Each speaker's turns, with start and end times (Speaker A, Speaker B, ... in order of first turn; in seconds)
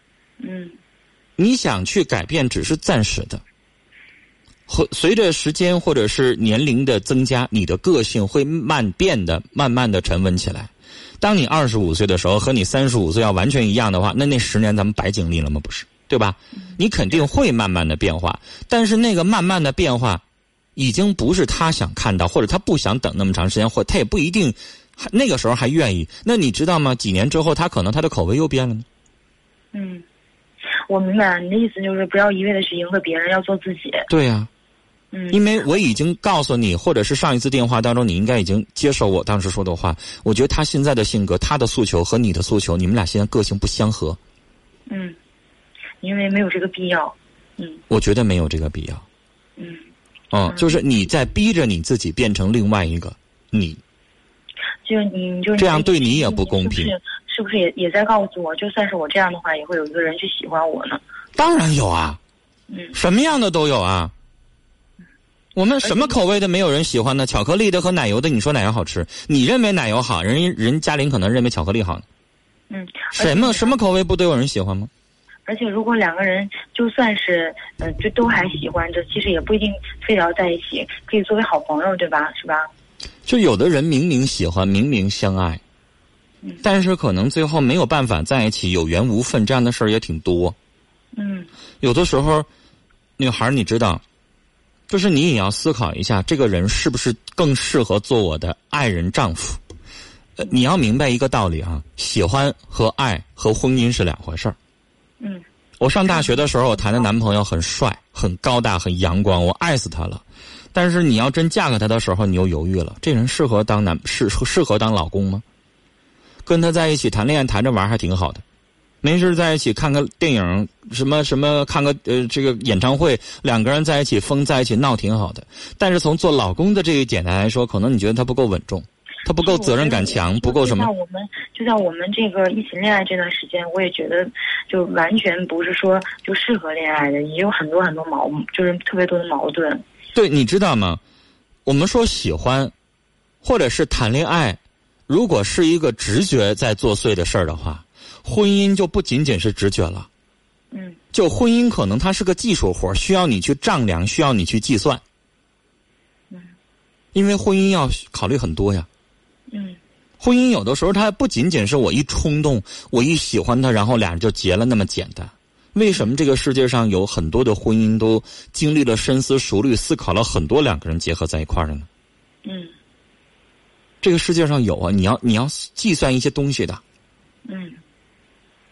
Speaker A: 0.4-0.8, 29.7-30.0, 30.9-34.1, 35.1-35.4, 44.9-45.1, 46.0-47.8, 49.6-49.9, 50.5-50.8, 54.8-61.0, 65.8-66.2, 72.7-73.7, 75.5-82.7, 91.1-91.5, 106.1-106.4, 129.4-139.8, 150.7-151.0, 159.5-159.8, 172.4-172.7, 177.4-177.8
Speaker B: 1.4-3.4, 4.7-20.2, 20.8-28.8, 34.1-34.5, 35.3-44.2, 47.9-49.0, 50.3-53.8, 55.6-56.9, 61.4-62.2, 62.9-64.1, 65.5-72.0, 73.1-74.9, 83.3-85.6, 86.6-90.5, 91.8-92.5, 93.2-94.0, 94.9-99.6, 100.4-104.5, 105.8-115.4, 116.5-118.4, 119.0-130.9, 140.1-141.0, 141.7-142.7, 143.4-150.1, 151.1-155.0, 157.1-158.9, 160.2-171.9, 174.0-176.8